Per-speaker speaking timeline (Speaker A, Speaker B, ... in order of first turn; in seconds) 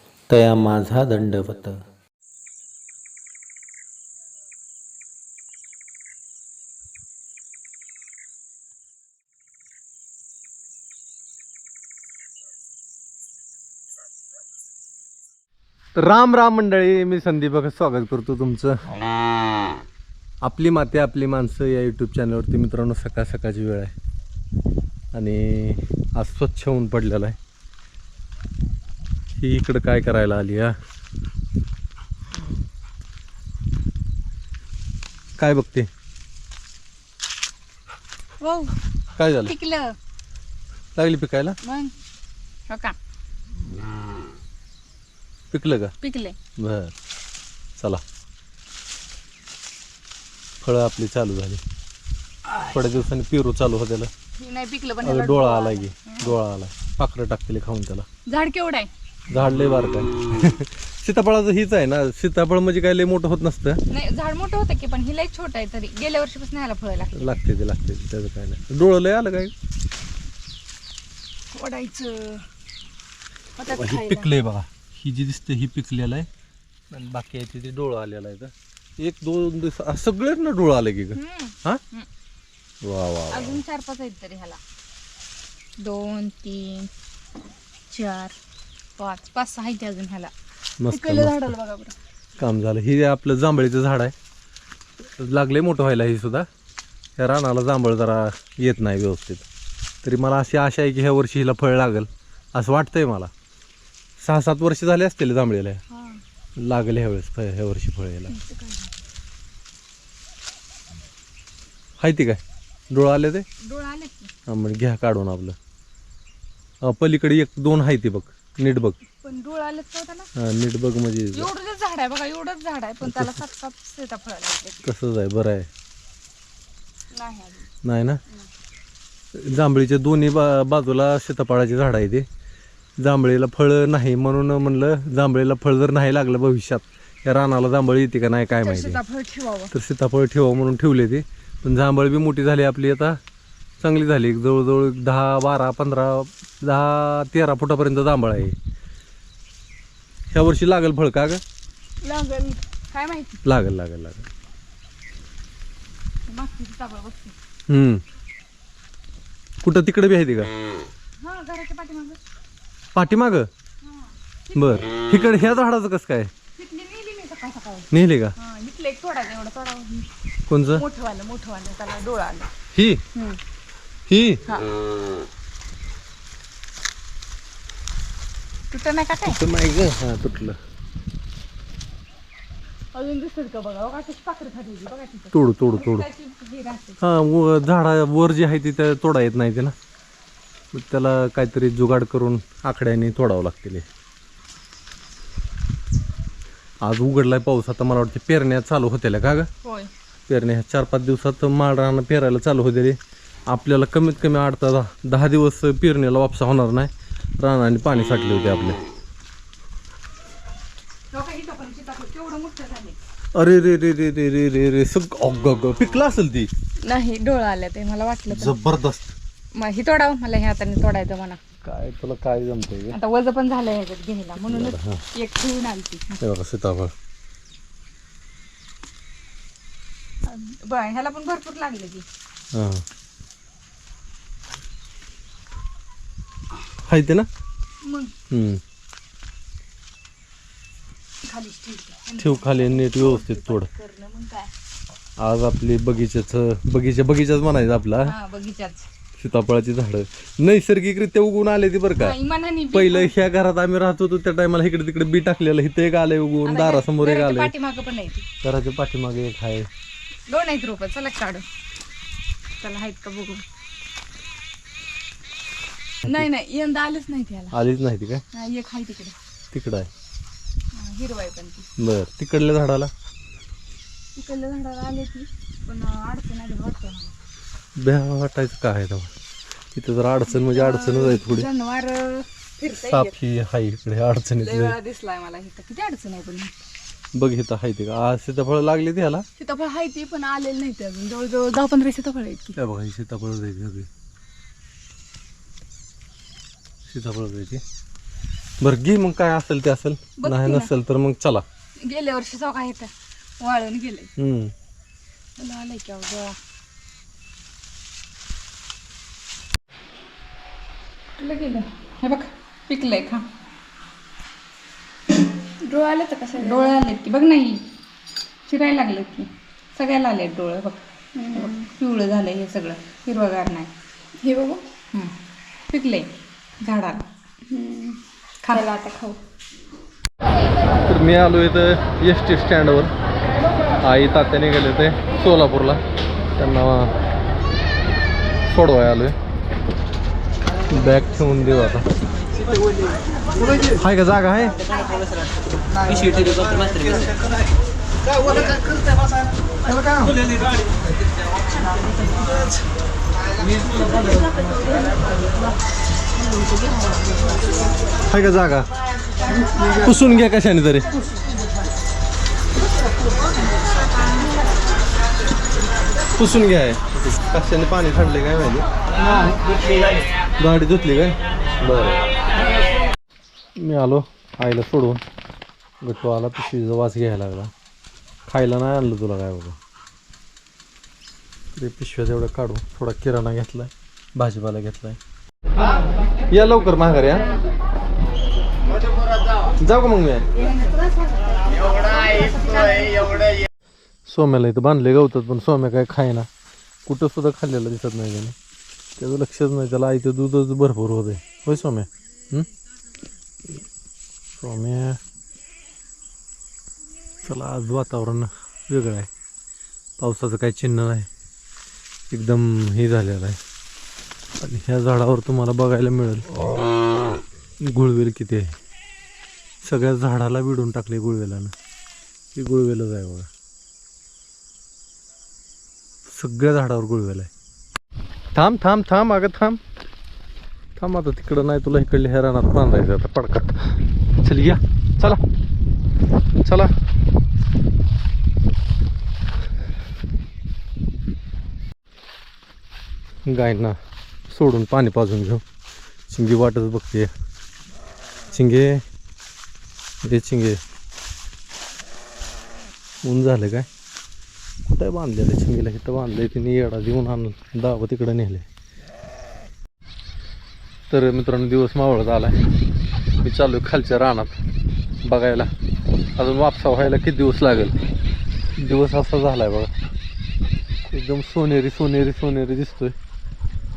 Speaker A: 0.3-1.8, 15.9-18.8, 20.4-23.9, 25.1-27.4, 29.4-30.7, 35.4-35.9, 39.2-39.5, 41.0-41.6, 45.5-45.9, 46.6-46.9, 50.6-51.6, 52.7-54.1, 55.0-58.0, 59.3-63.8, 67.1-69.5, 73.7-76.3, 76.9-81.8, 82.8-83.6, 90.8-91.5, 92.4-94.1, 95.0-96.5, 97.2-99.5, 100.0-103.3, 104.2-105.8, 106.6-108.3, 112.0-113.4, 114.5-115.6, 116.8-119.0, 120.4-121.5, 123.0-123.4, 124.8-125.7, 127.8-128.2, 129.3-132.2, 133.0-139.0, 139.7-143.2, 143.8-148.5, 150.3-151.4, 153.4-154.2, 157.7-158.0, 159.6-160.5, 162.9-163.5, 164.5-166.3, 167.9-168.3, 170.5-170.8, 172.7-173.0, 174.1-174.4, 179.2-180.6, 185.3-186.1, 187.0-189.7, 190.7-193.8, 196.8-199.5, 200.3-203.0, 203.5-208.8, 213.3-216.5, 218.3-219.2, 221.6-223.0, 224.5-225.0, 226.2-226.9, 232.5-232.8, 236.9-237.3, 238.3-238.6, 242.2-243.7, 245.2-248.1, 249.2-252.2, 252.7-257.5, 258.4-259.7, 267.5-268.2, 269.5-269.9, 271.8-272.9, 277.8-279.1, 279.7-281.5, 282.7-284.8, 287.1-289.2, 292.6-293.9, 296.9-297.6, 298.6-301.4, 304.2-304.5, 330.9-332.9, 333.8-335.8, 336.4-336.9, 338.5-339.1, 340.7-341.9, 343.8-344.6, 358.1-358.7, 359.6-361.0, 366.1-368.7, 370.4-372.0, 373.6-375.0, 375.8-377.5, 378.3-379.6, 381.6-385.0, 386.3-387.3, 389.6-390.3, 394.1-396.3, 396.9-398.4, 399.0-402.5, 404.4-405.0, 407.2-409.1, 410.0-411.1, 412.1-413.4, 414.4-416.3, 417.6-418.5, 419.6-421.5, 422.4-423.3, 426.1-427.3, 428.4-429.6, 430.8-435.2, 436.4-436.7, 443.3-443.8, 444.3-445.4, 446.1-447.1, 448.3-448.8, 450.0-450.6, 453.0-453.7, 454.7-458.4, 460.9-462.4, 463.2-464.4, 465.0-465.5, 466.2-467.8, 468.6-469.7, 470.9-472.9
Speaker B: 38.4-38.8, 39.5-40.0, 41.6-41.9, 42.7-43.0, 46.0-46.4, 54.4-56.4, 58.3-58.9, 63.9-67.3, 71.5-72.5, 73.6-74.3, 81.2-82.1, 83.3-84.6, 85.8-86.9, 87.9-88.4, 89.0-90.3, 90.9-91.9, 105.9-106.2, 108.3-109.0, 113.6-114.3, 119.1-120.3, 121.3-124.9, 127.1-127.7, 138.6-139.7, 152.0-153.4, 156.3-157.3, 161.2-162.2, 163.8-164.8, 166.6-170.1, 170.7-172.5, 173.1-173.4, 178.7-179.4, 182.9-187.0, 199.6-199.9, 211.1-213.0, 216.8-218.6, 219.5-221.4, 222.9-226.2, 230.2-232.0, 237.8-238.1, 241.2-244.5, 248.0-248.9, 252.0-253.1, 256.4-258.2, 260.3-261.4, 262.6-263.4, 266.0-267.6, 268.3-269.1, 270.7-271.7, 274.1-277.1, 280.3-283.1, 284.4-286.6, 289.4-292.6, 300.2-300.7, 301.8-304.1, 305.4-306.4, 311.2-313.2, 316.3-317.6, 318.5-323.7, 324.8-325.1, 325.7-327.1, 328.4-328.8, 390.4-390.8, 391.7-393.2
Speaker C: 315.6-316.8, 321.2-321.6, 324.2-324.6, 327.5-329.2